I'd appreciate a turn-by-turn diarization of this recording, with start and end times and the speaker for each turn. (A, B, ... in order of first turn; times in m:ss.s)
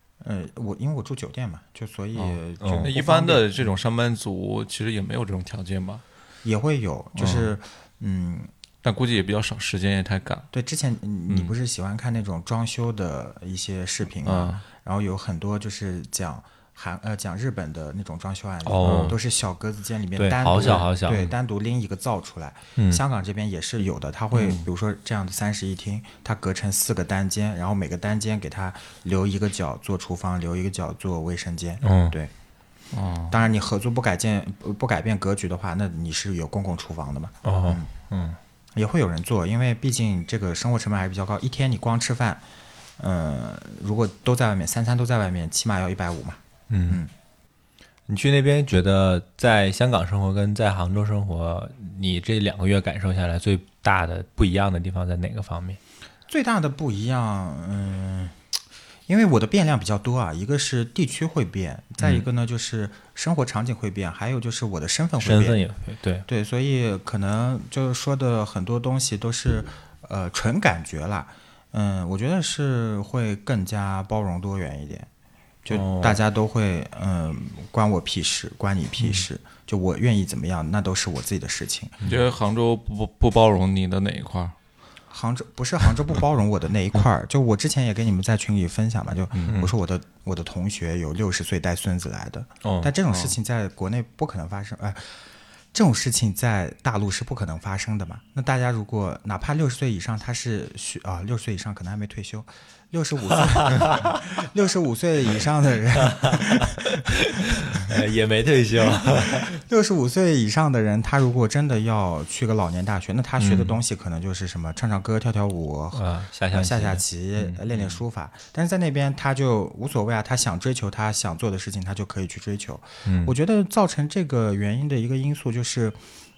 0:00.2-0:03.7 A
0:02.2-0:02.9 B
0:02.8-0:06.0 C
0:06.4-0:08.5 A
0:08.8-0:10.5 C
0:10.5-0:32.3 A
0:14.2-0:14.6 C
0:18.6-0:19.2 B
0:20.2-0:21.3 B
0:22.8-0:23.0 B
0:24.3-0:24.7 C
0:31.8-0:32.1 B
0:32.9-0:33.4 C
0:33.3-0:37.9 A
0:37.4-0:38.4 B
0:38.7-0:42.4 A
0:43.0-0:47.1 A
0:46.7-0:47.0 B
0:48.1-0:55.8 B
0:56.3-0:58.4 A
0:59.1-1:05.6 A
1:02.0-1:02.2 B
1:05.2-1:06.2 B
1:06.3-1:15.1 A
1:15.6-1:22.0 A
1:15.7-1:16.2 B
1:22.0-1:24.5 C
1:25.1-1:47.2 A
1:29.3-1:29.6 C
1:32.6-1:32.9 B
1:33.1-1:33.4 C
1:46.0-1:49.6 B
1:49.0-2:06.0 A
1:53.4-1:53.8 B
1:55.9-1:57.6 B
2:03.0-2:03.3 B